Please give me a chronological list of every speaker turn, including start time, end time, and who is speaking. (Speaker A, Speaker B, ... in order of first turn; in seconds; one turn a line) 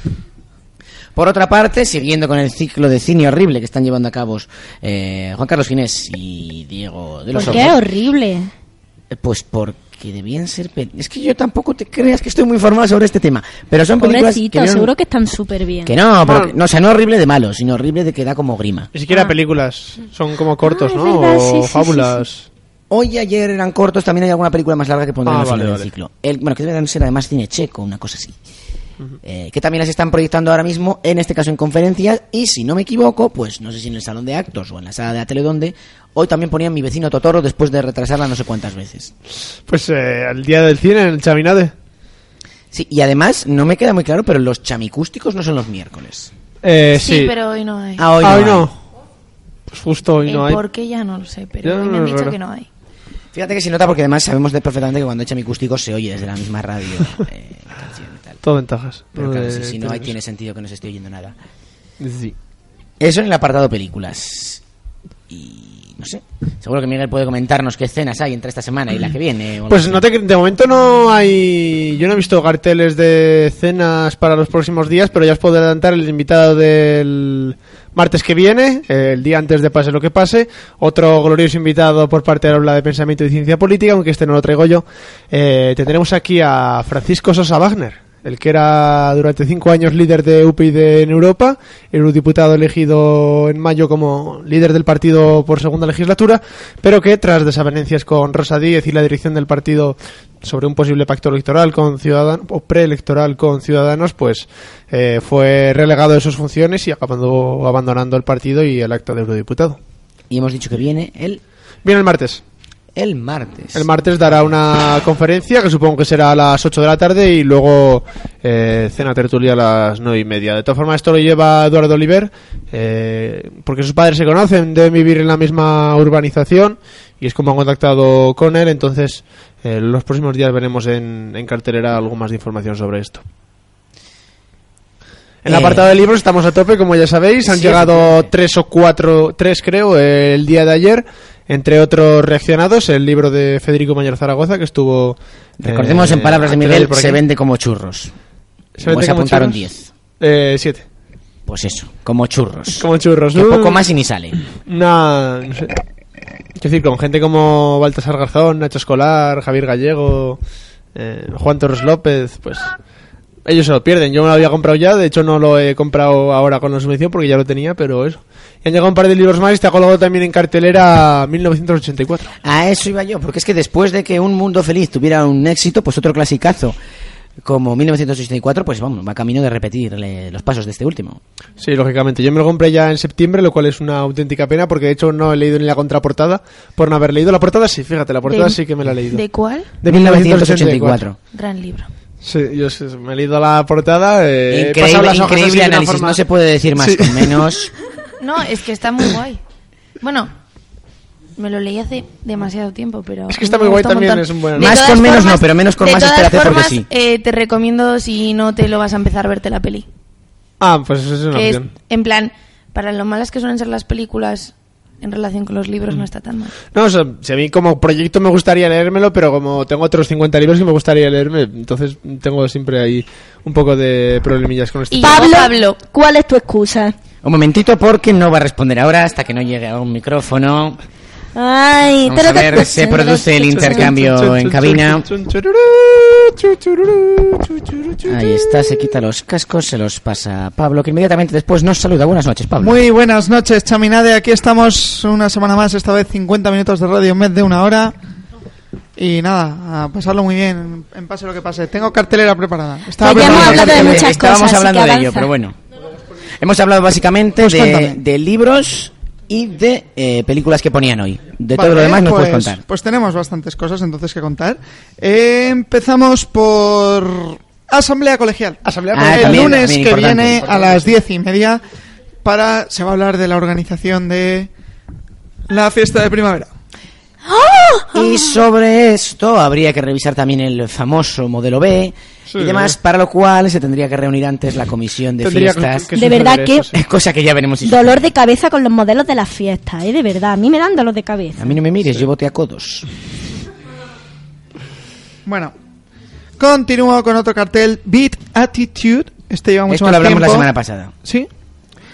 Speaker A: 1.1-7.8
Speaker B: 7.3-8.5
Speaker A: 9.1-14.9
Speaker B: 14.0-16.0
Speaker A: 15.8-18.9
Speaker C: 16.2-16.5
Speaker C: 18.9-22.5
Speaker B: 20.6-22.2
Speaker A: 22.9-28.4
Speaker C: 25.2-25.9
Speaker A: 29.2-39.1
Speaker C: 39.7-41.7
Speaker A: 42.7-46.3
Speaker C: 46.6-47.3
Speaker D: 46.9-48.1
Speaker A: 48.0-48.7
Speaker C: 48.2-48.8
Speaker C: 49.7-50.6
Speaker D: 50.2-52.7
Speaker C: 51.6-52.4
Speaker A: 53.3-58.4
Speaker C: 58.4-60.1
Speaker A: 59.1-61.4
Speaker C: 62.0-62.4
Speaker A: 63.0-64.6
Speaker A: 65.3-70.0
Speaker C: 69.7-109.8
Speaker A: 110.3-111.4
Speaker C: 111.8-112.4
Speaker A: 113.0-114.5
Speaker C: 113.8-133.2
Speaker C: 135.4-147.2
Speaker A: 135.5-135.9
Speaker A: 137.4-138.3
Speaker A: 145.6-148.1
Speaker C: 148.8-149.6
Speaker A: 148.8-149.9
Speaker C: 150.2-150.8
Speaker A: 151.5-154.4
Speaker C: 152.8-153.8
Speaker C: 154.7-155.8
Speaker C: 156.6-160.4
Speaker C: 160.9-162.7
Speaker C: 163.4-172.3
Speaker A: 172.4-176.8
Speaker A: 177.4-181.2
Speaker C: 181.6-189.2
Speaker D: 188.3-189.7
Speaker C: 189.8-191.1
Speaker A: 189.8-191.2
Speaker D: 191.3-191.9
Speaker C: 192.2-196.2
Speaker A: 194.5-197.7
Speaker C: 196.8-197.5
Speaker D: 198.2-199.4
Speaker D: 200.0-200.3
Speaker D: 201.4-209.9
Speaker C: 203.3-204.9
Speaker A: 204.6-206.9
Speaker C: 210.6-211.7
Speaker D: 211.3-216.5
Speaker C: 216.7-225.4
Speaker D: 224.9-225.8
Speaker B: 225.0-226.9
Speaker A: 227.2-230.8
Speaker B: 231.3-233.9
Speaker A: 232.1-235.1
Speaker C: 233.4-238.1
Speaker A: 238.1-242.8
Speaker E: 242.6-247.9
Speaker E: 249.0-254.1
Speaker B: 253.0-255.3
Speaker A: 253.0-255.6
Speaker A: 256.4-262.6
Speaker E: 257.4-258.0
Speaker E: 261.5-271.6
Speaker C: 268.6-269.7
Speaker A: 268.9-270.5
Speaker C: 270.4-270.9
Speaker E: 272.2-274.5
Speaker E: 275.5-276.5
Speaker B: 277.3-278.4
Speaker A: 277.9-285.9
Speaker C: 282.3-282.8
Speaker C: 285.2-286.8
Speaker B: 285.9-286.7
Speaker A: 286.7-288.1
Speaker B: 287.6-291.6
Speaker A: 291.4-292.9
Speaker E: 295.2-295.5
Speaker E: 296.4-300.5
Speaker A: 299.7-300.9
Speaker E: 301.0-301.3